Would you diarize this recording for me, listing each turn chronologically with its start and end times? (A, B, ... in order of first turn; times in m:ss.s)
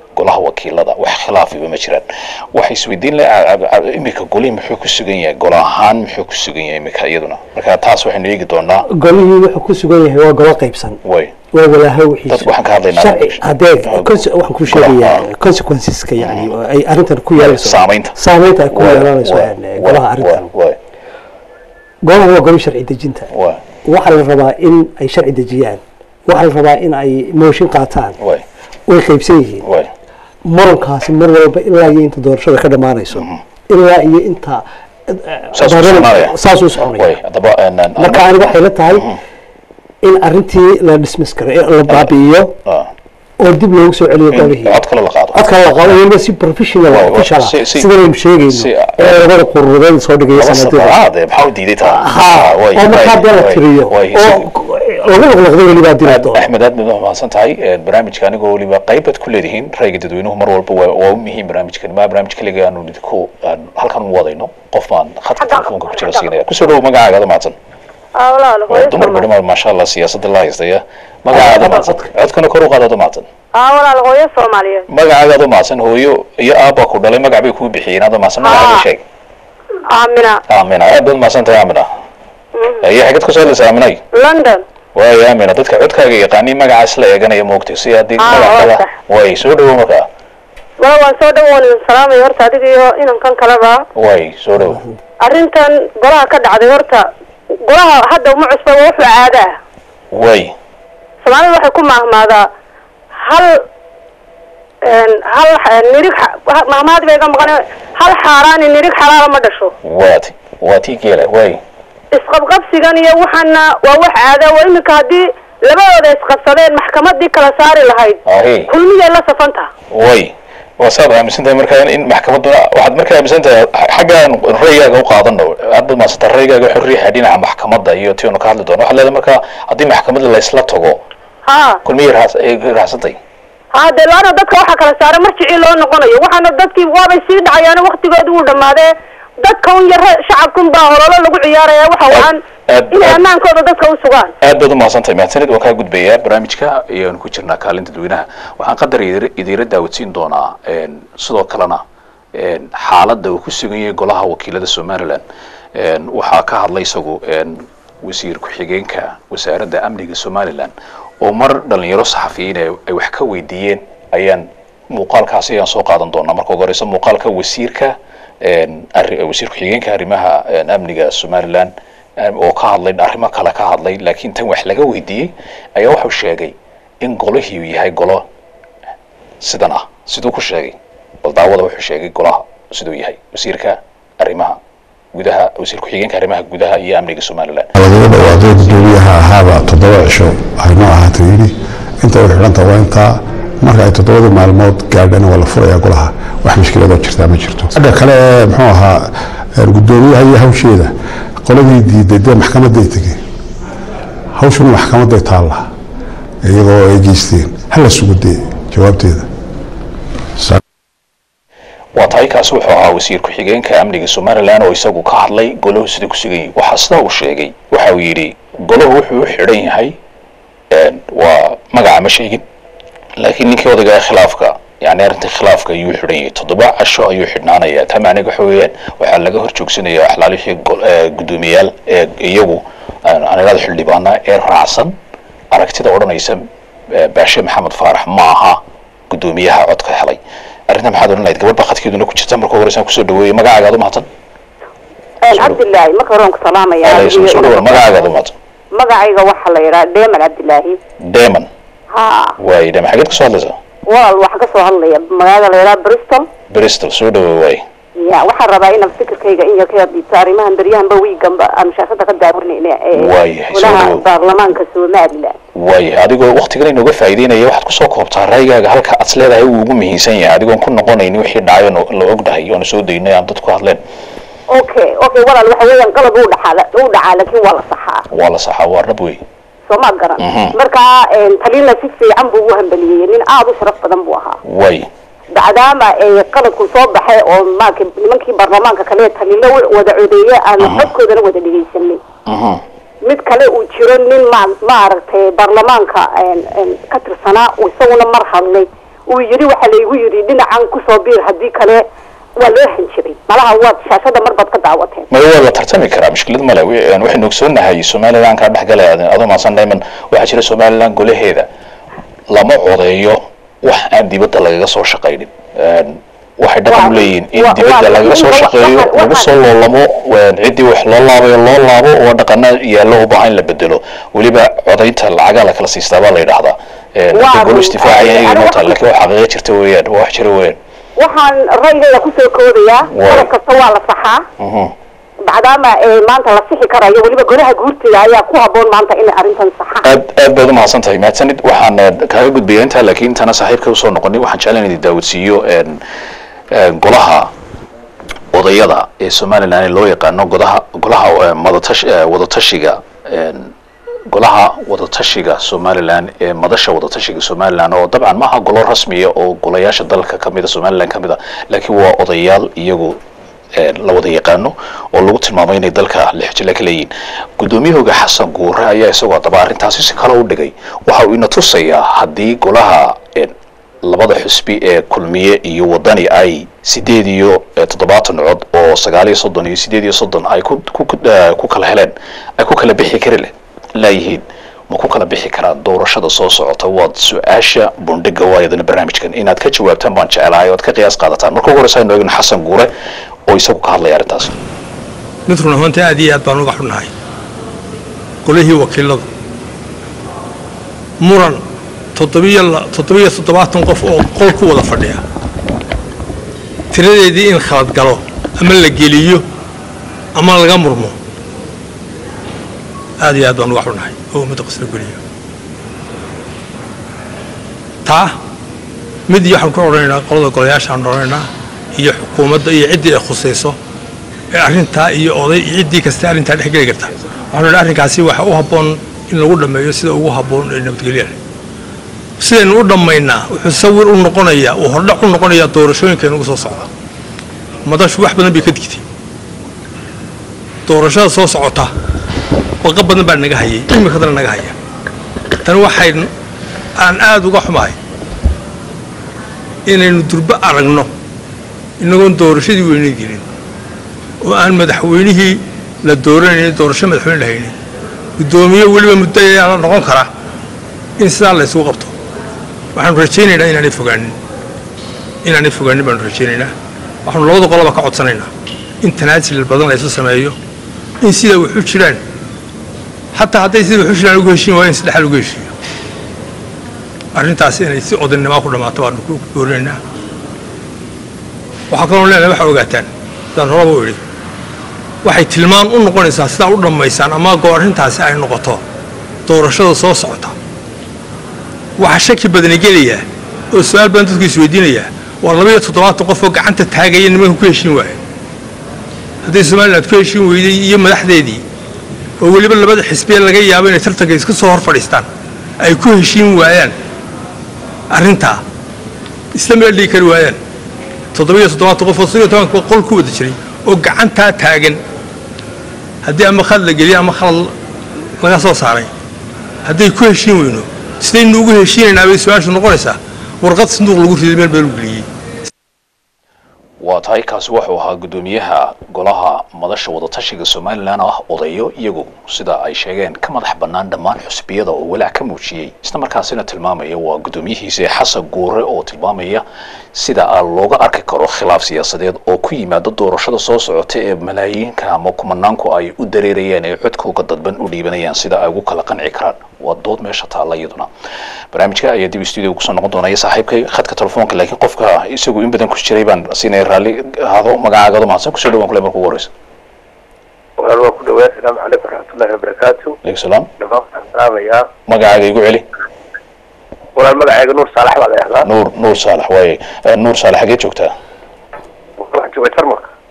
0:00.2-0:08.9 A
0:08.9-0:11.0 B
0:11.0-0:11.3 A
0:11.5-0:20.5 B
0:12.3-0:14.1 A
0:14.7-0:15.2 A
0:16.2-0:16.5 A
0:17.4-0:18.2 A
0:18.7-0:20.8 A
0:22.0-0:23.3 B
0:23.3-0:23.6 A
0:23.8-0:28.2 B
0:28.9-0:29.6 B
0:29.6-0:29.9 A
0:30.5-0:37.1 B
0:33.1-0:33.4 A
0:35.6-0:36.4 A
0:37.0-0:39.2 A
0:38.0-0:39.1 B
0:40.0-0:42.6 B
0:43.4-0:44.8 B
0:44.3-0:45.4 A
0:45.3-0:51.0 B
0:46.9-0:47.9 A
0:48.5-0:49.2 A
0:50.3-0:54.5 A
0:51.8-0:56.4 B
0:56.0-1:07.6 A
1:05.4-1:06.3 C
1:08.2-1:09.3 C
1:08.7-1:13.3 A
1:11.3-1:11.9 C
1:13.6-1:14.9 C
1:14.9-1:19.0 A
1:18.4-1:18.8 C
1:19.9-1:20.4 C
1:20.5-1:21.9 A
1:22.6-1:22.9 C
1:22.8-1:24.0 A
1:24.2-1:24.6 C
1:25.0-1:30.1 A
1:28.2-1:28.9 C
1:30.8-1:33.8 C
1:34.0-1:34.8 A
1:35.2-1:37.1 C
1:37.6-1:39.6 C
1:40.1-1:40.5 A
1:41.2-1:42.5 C
1:43.2-1:43.6 C
1:44.8-1:49.7 C
1:49.8-1:51.6 A
1:52.1-1:59.7 C
1:58.3-1:58.7 A
1:59.9-2:11.0 A
2:11.5-2:11.8 C
2:11.8-2:13.2 A
2:13.7-2:18.9 C
2:19.4-2:24.3 C
2:22.1-2:23.2 A
2:24.4-2:31.8 A
2:32.3-2:35.2 A
2:35.7-2:58.2 A
2:59.4-3:04.6 A
3:05.1-3:07.7 A
3:07.8-3:23.2 D
3:24.3-3:25.7 D
3:26.4-3:29.3 D
3:32.0-3:40.0 A
3:40.7-3:42.4 A
3:43.2-3:54.9 A
3:55.5-4:04.1 A
4:05.2-4:08.0 C
4:05.3-4:05.6 A
4:06.8-4:08.3 A
4:08.8-4:10.8 C
4:11.1-4:11.5 A
4:11.9-4:12.4 C
4:12.4-4:13.6 A
4:13.9-4:16.3 C
4:16.5-4:17.6 A
4:18.0-4:25.4 C
4:23.0-4:24.1 A
4:25.6-4:33.8 A
4:34.5-4:38.0 C
4:38.1-4:39.2 A
4:39.7-4:44.4 C
4:40.2-4:40.5 A
4:44.5-4:44.9 A
4:45.4-4:52.0 C
4:50.6-4:50.9 A
4:52.3-4:52.6 A
4:53.0-5:01.8 C
5:02.4-5:05.1 C
5:05.1-5:11.5 A
5:12.3-5:30.6 A
5:16.7-5:19.3 C
5:27.1-5:28.8 C
5:31.0-5:34.2 C
5:32.9-5:33.3 A
5:34.4-5:34.7 A
5:35.2-5:39.9 C
5:39.8-5:45.8 A
5:46.5-5:47.3 A
5:48.3-5:53.5 A
5:54.1-6:03.0 A
6:03.6-6:32.7 A
6:33.3-6:34.3 A
6:35.3-6:36.9 E
6:38.2-6:39.1 E
6:41.0-6:41.4 E
6:42.0-6:45.0 E
6:46.7-6:49.2 E
6:50.2-6:51.0 E
6:53.0-6:55.0 E
6:57.8-6:58.2 E
6:59.1-7:03.6 E
7:04.3-7:11.2 E
7:12.2-7:16.7 E
7:17.6-7:18.8 E
7:20.7-7:21.7 E
7:22.6-7:24.6 E
7:25.4-7:26.1 E
7:26.8-7:27.8 E
7:29.7-7:30.9 E
7:31.8-7:33.2 E
7:34.2-7:37.5 E
7:38.2-7:40.1 E
7:41.0-7:41.9 E
7:42.8-7:44.2 E
7:45.2-7:46.5 E
7:47.1-7:48.3 E
7:48.8-7:50.4 E
7:51.0-7:52.0 E
7:53.1-7:55.5 E
7:57.2-7:59.8 E
8:01.7-8:04.0 E
8:05.0-8:08.6 E
8:09.3-8:10.4 E
8:11.8-8:18.0 E
8:19.2-8:21.4 E
8:22.2-8:25.1 E
8:25.6-8:26.7 E
8:27.9-8:28.4 E
8:29.3-8:30.4 E
8:31.1-8:34.8 E
8:36.0-8:37.5 E
8:38.2-8:38.9 E
8:39.7-8:45.1 E
8:46.8-9:10.9 A
9:11.5-9:19.3 A
9:20.6-9:23.0 F
9:23.0-9:23.5 A
9:23.6-9:24.7 F
9:24.9-9:25.6 A
9:27.0-9:28.5 F
9:28.4-9:30.9 A
9:32.0-9:32.8 F